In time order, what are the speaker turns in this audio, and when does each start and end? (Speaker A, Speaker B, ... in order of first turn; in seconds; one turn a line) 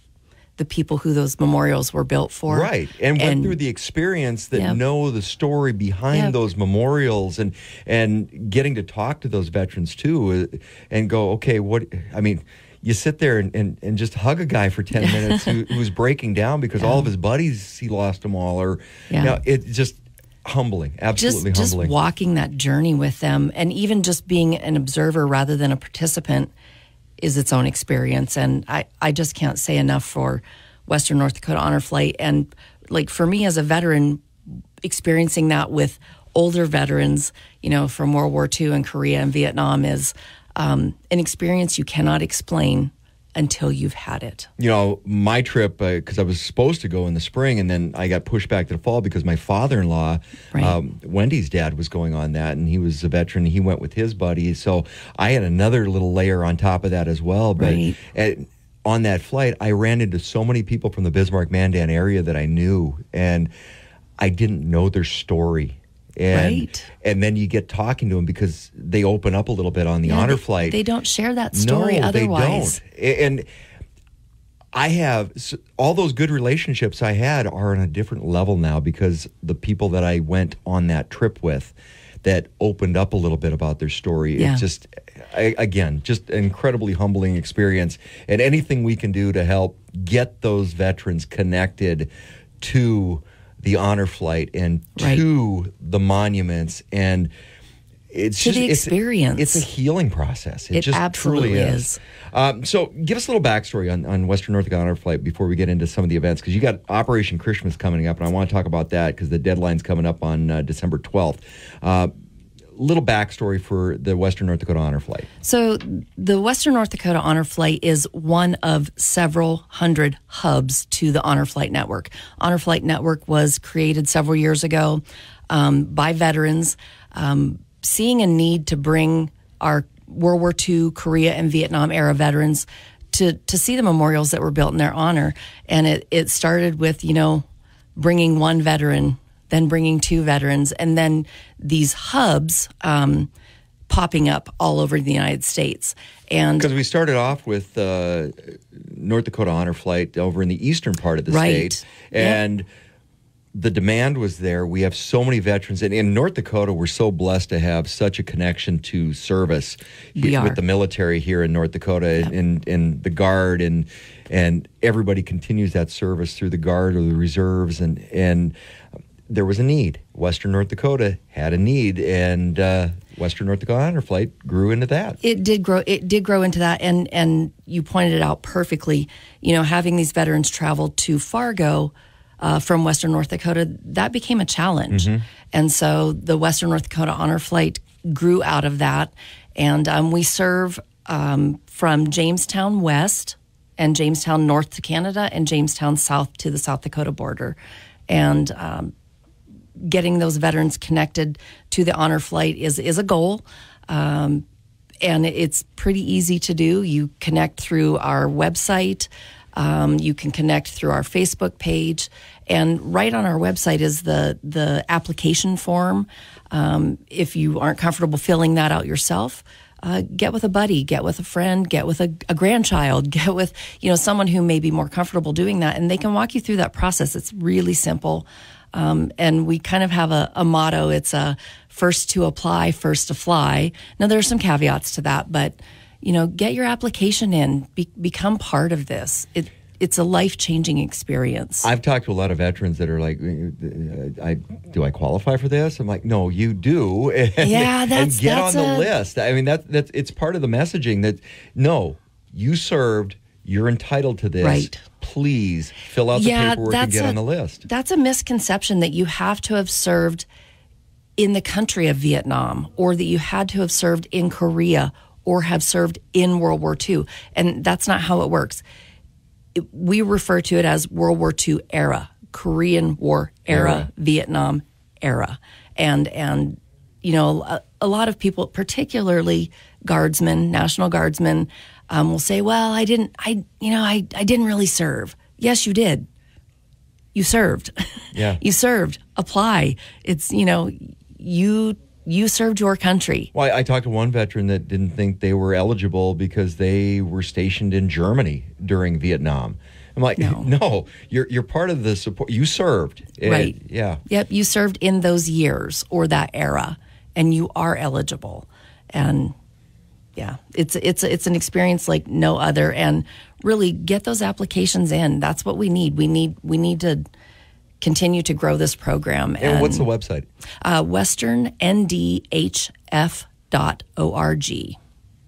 Speaker A: 0.6-3.6
Speaker B: 2.5-21.9
Speaker A: 15.0-15.5
Speaker A: 16.8-17.1
Speaker A: 19.1-19.4
Speaker A: 21.2-26.5
Speaker A: 27.2-34.2
Speaker A: 34.8-44.5
Speaker B: 44.6-63.5
Speaker A: 57.6-58.0
Speaker B: 64.2-70.8
Speaker A: 66.3-66.9
Speaker A: 70.0-72.8
Speaker B: 71.5-73.5
Speaker B: 74.7-92.1
Speaker A: 84.4-84.6
Speaker B: 92.6-97.3
Speaker A: 95.0-95.2
Speaker B: 98.1-112.1
Speaker A: 98.4-99.7
Speaker A: 100.7-102.0
Speaker B: 112.8-115.3
Speaker A: 115.4-137.4
Speaker A: 137.9-143.3
Speaker A: 143.9-146.7
Speaker B: 146.6-152.7
Speaker A: 151.3-152.4
Speaker B: 153.5-168.5
Speaker A: 160.2-160.6
Speaker B: 169.3-175.2
Speaker A: 175.2-197.6
Speaker B: 184.9-185.2
Speaker A: 198.1-198.9
Speaker A: 199.8-204.4
Speaker A: 205.0-241.7
Speaker B: 241.6-257.6
Speaker A: 247.4-248.9
Speaker A: 254.4-254.8
Speaker A: 256.1-260.2
Speaker A: 261.2-268.6
Speaker A: 269.5-286.1
Speaker B: 273.5-273.9
Speaker A: 287.1-287.7
Speaker B: 288.1-288.4
Speaker A: 288.4-293.3
Speaker B: 293.3-304.0
Speaker A: 300.2-300.5
Speaker A: 303.2-309.3
Speaker A: 310.1-317.1
Speaker A: 317.8-319.9
Speaker B: 319.4-320.3
Speaker A: 320.6-324.8